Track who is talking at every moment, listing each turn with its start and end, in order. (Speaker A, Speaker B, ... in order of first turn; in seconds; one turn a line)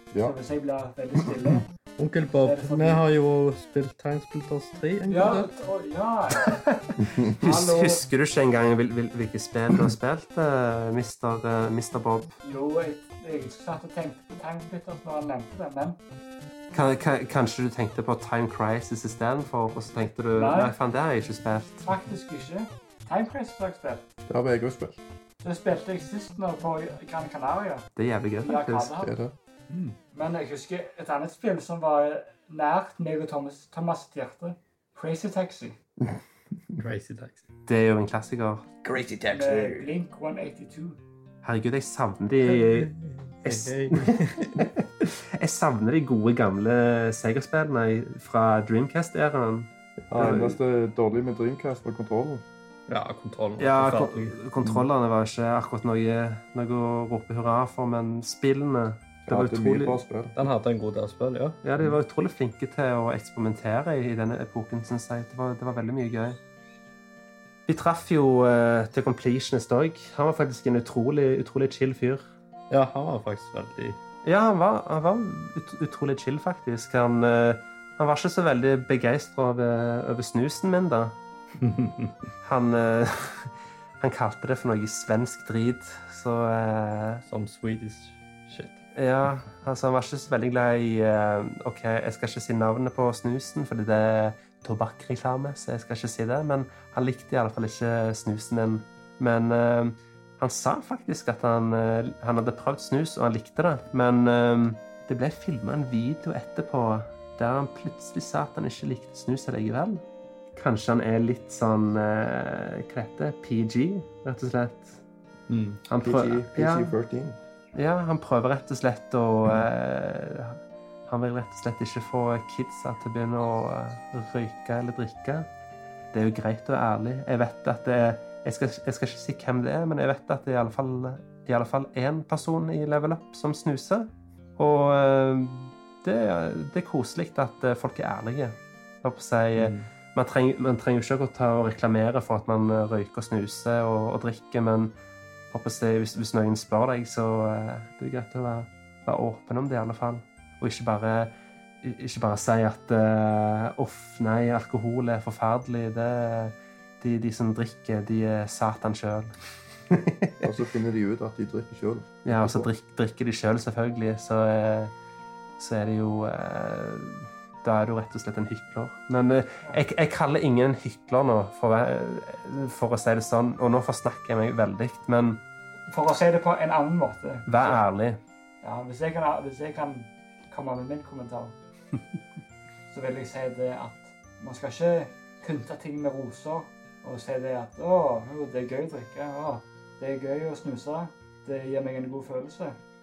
Speaker A: 0.1-0.4
Speaker B: 0.2-1.7
Speaker C: 2.0-5.5
Speaker B: 2.4-3.0
Speaker B: 5.1-6.6
Speaker D: 6.4-12.3
Speaker A: 7.0-7.3
Speaker B: 7.4-8.0
Speaker B: 12.4-16.0
Speaker D: 16.7-21.9
Speaker B: 20.3-20.8
Speaker B: 21.8-24.1
Speaker A: 24.3-25.0
Speaker B: 25.4-27.9
Speaker D: 28.0-28.9
Speaker B: 28.4-29.1
Speaker A: 29.0-29.3
Speaker C: 29.7-30.0
Speaker B: 30.1-35.8
Speaker C: 36.8-37.4
Speaker D: 37.7-38.7
Speaker B: 39.3-41.0
Speaker D: 41.4-42.9
Speaker C: 42.5-44.6
Speaker D: 43.4-50.6
Speaker A: 50.1-52.5
Speaker C: 52.9-54.4
Speaker D: 53.6-60.0
Speaker A: 59.2-60.4
Speaker C: 60.4-61.6
Speaker D: 61.6-66.4
Speaker D: 67.7-72.2
Speaker C: 72.7-74.0
Speaker D: 74.2-81.2
Speaker C: 81.6-82.2
Speaker D: 82.4-87.2
Speaker C: 87.3-88.8
Speaker D: 89.0-110.0
Speaker D: 110.6-115.0
Speaker C: 115.5-115.8
Speaker D: 115.9-116.9
Speaker A: 116.0-117.4
Speaker D: 117.8-125.5
Speaker D: 126.1-144.9
Speaker C: 139.6-139.9
Speaker D: 145.5-159.3
Speaker D: 159.9-160.5
Speaker A: 160.4-162.7
Speaker D: 162.2-164.9
Speaker D: 165.6-175.4
Speaker B: 175.9-177.8
Speaker D: 177.5-178.2
Speaker B: 178.6-181.6
Speaker B: 182.9-192.8